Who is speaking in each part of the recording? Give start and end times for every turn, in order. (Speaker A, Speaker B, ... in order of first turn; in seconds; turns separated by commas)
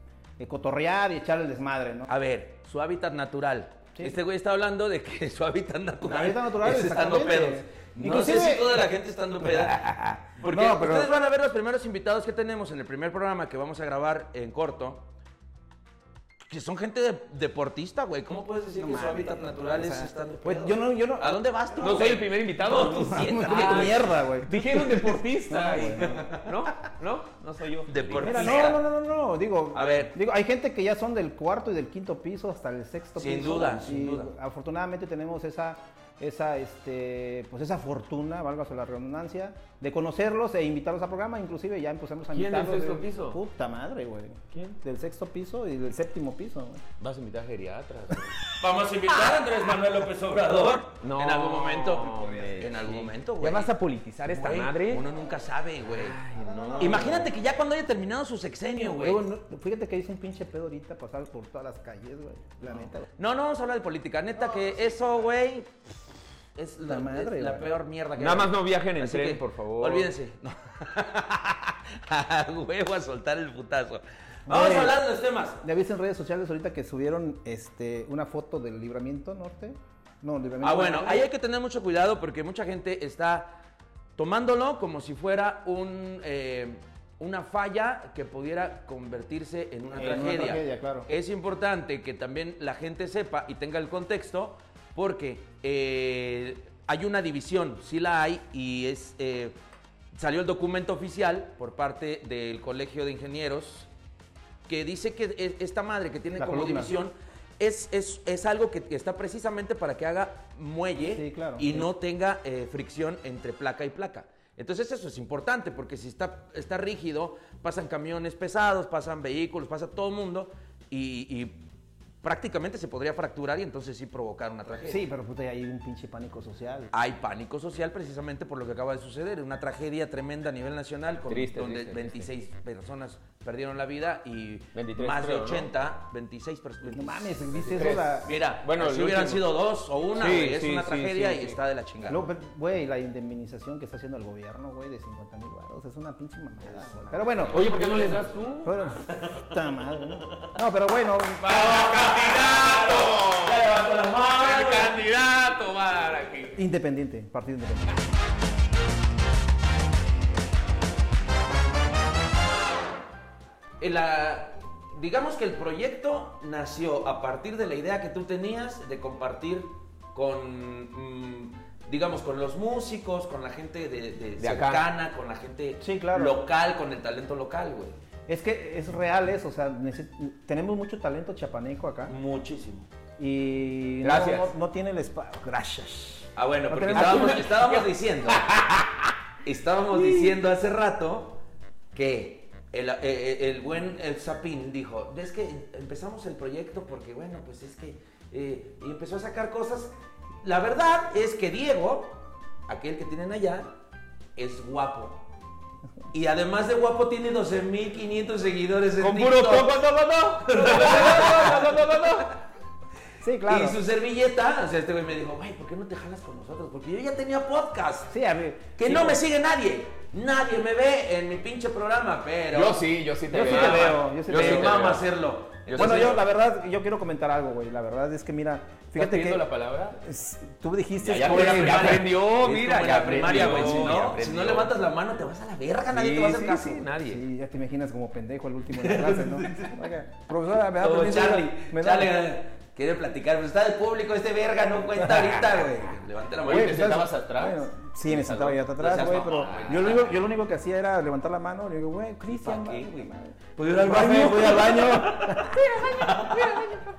Speaker A: 0.4-2.1, Speaker B: 2.1-15.1, Speaker A: 6.0-8.9, Speaker A: 9.4-11.1, Speaker B: 16.5-24.1, Speaker A: 18.8-22.0, Speaker C: 21.8-28.7, Speaker A: 22.8-26.3, Speaker B: 26.0-26.7, Speaker B: 27.9-28.8, Speaker A: 28.2-46.8, Speaker B: 29.7-30.1, Speaker B: 33.2-34.3, Speaker C: 42.3-43.4, Speaker C: 47.0-48.5, Speaker B: 48.6-53.7, Speaker C: 51.0-55.0, Speaker B: 54.3-56.2, Speaker C: 55.9-57.3, Speaker A: 56.4-57.2, Speaker B: 56.8-59.2, Speaker A: 58.8-63.1, Speaker B: 63.1-65.7, Speaker B: 66.6-75.6, Speaker A: 66.9-67.7, Speaker C: 68.2-70.1, Speaker A: 74.5-75.0, Speaker A: 75.6-81.3, Speaker B: 80.6-83.6, Speaker B: 84.2-99.5, Speaker A: 90.0-91.1, Speaker B: 100.2-103.9, Speaker B: 104.7-121.7, Speaker A: 106.4-107.0, Speaker A: 111.0-111.9, Speaker B: 122.2-125.0, Speaker A: 124.8-126.9, Speaker B: 126.9-142.3, Speaker C: 131.3-132.3, Speaker C: 134.7-135.7, Speaker A: 136.9-138.3, Speaker C: 137.7-139.5, Speaker C: 140.2-141.6, Speaker A: 142.1-147.7, Speaker B: 146.8-148.3, Speaker C: 147.5-148.9, Speaker A: 148.6-151.7, Speaker B: 149.1-149.4, Speaker C: 151.4-153.6, Speaker B: 151.4-155.0, Speaker C: 154.4-156.6, Speaker A: 156.6-158.0, Speaker B: 163.8-177.9, Speaker C: 174.4-174.8, Speaker A: 175.8-176.4, Speaker A: 178.3-182.1, Speaker B: 182.1-182.9, Speaker A: 183.2-187.5, Speaker C: 184.0-184.5, Speaker B: 186.3-188.5, Speaker C: 186.9-188.9, Speaker B: 189.4-191.4, Speaker A: 189.9-190.3, Speaker B: 191.9-199.9, Speaker B: 200.4-203.7, Speaker B: 204.4-205.2, Speaker B: 206.1-209.8, Speaker C: 209.0-212.3, Speaker B: 210.4-212.3, Speaker A: 213.2-213.8, Speaker B: 213.4-218.1, Speaker A: 218.1-219.2, Speaker B: 218.8-226.2, Speaker C: 222.5-225.1, Speaker A: 223.3-224.8, Speaker C: 225.7-226.2, Speaker A: 225.8-232.1, Speaker C: 228.9-230.0, Speaker C: 231.0-234.7, Speaker B: 231.2-236.7, Speaker C: 235.9-237.2, Speaker A: 236.2-242.1, Speaker B: 238.8-239.9, Speaker B: 240.8-246.9, Speaker A: 245.0-255.8, Speaker C: 246.4-250.2, Speaker B: 248.8-250.1, Speaker B: 252.3-256.8